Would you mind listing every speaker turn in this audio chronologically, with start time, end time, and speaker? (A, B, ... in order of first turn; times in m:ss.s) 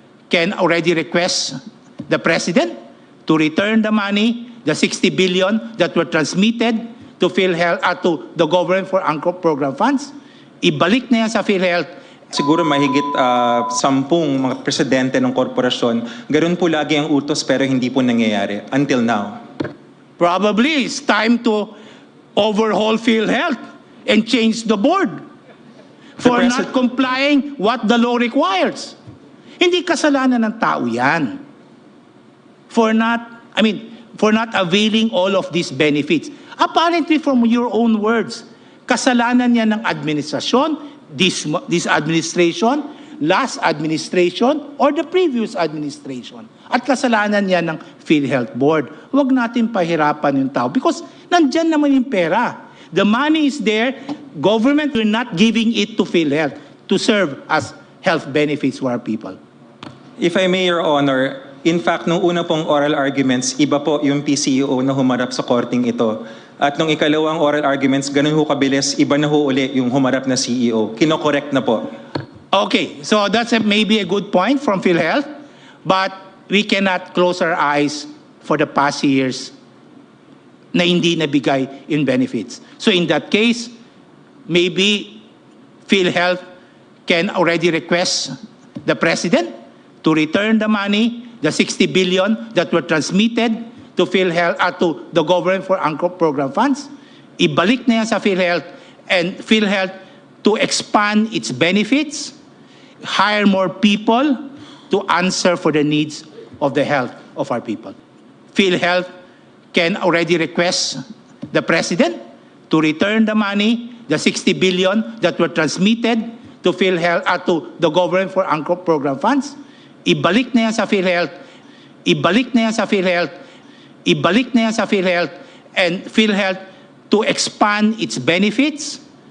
0:00.3-0:01.6 A
0:02.1-0:11.9 A
0:12.3-0:19.4 B
0:20.2-0:21.7 A
0:22.3-0:25.2 A
0:26.2-0:29.0 A
0:26.2-0:26.7 B
0:29.6-0:31.4 A
0:32.7-0:59.4 A
1:00.2-1:11.9 B
1:12.5-1:15.3 A
1:15.8-1:19.5 A
1:20.7-1:23.7 A
1:24.5-1:25.2 A
1:25.8-1:26.4 A
1:27.0-1:28.3 A
1:28.8-1:42.3 A
1:43.0-1:48.0 A
1:48.5-1:49.1 A
1:49.7-1:51.0 A
1:51.5-2:01.3 A
2:02.0-2:03.3 A
2:04.0-2:09.0 A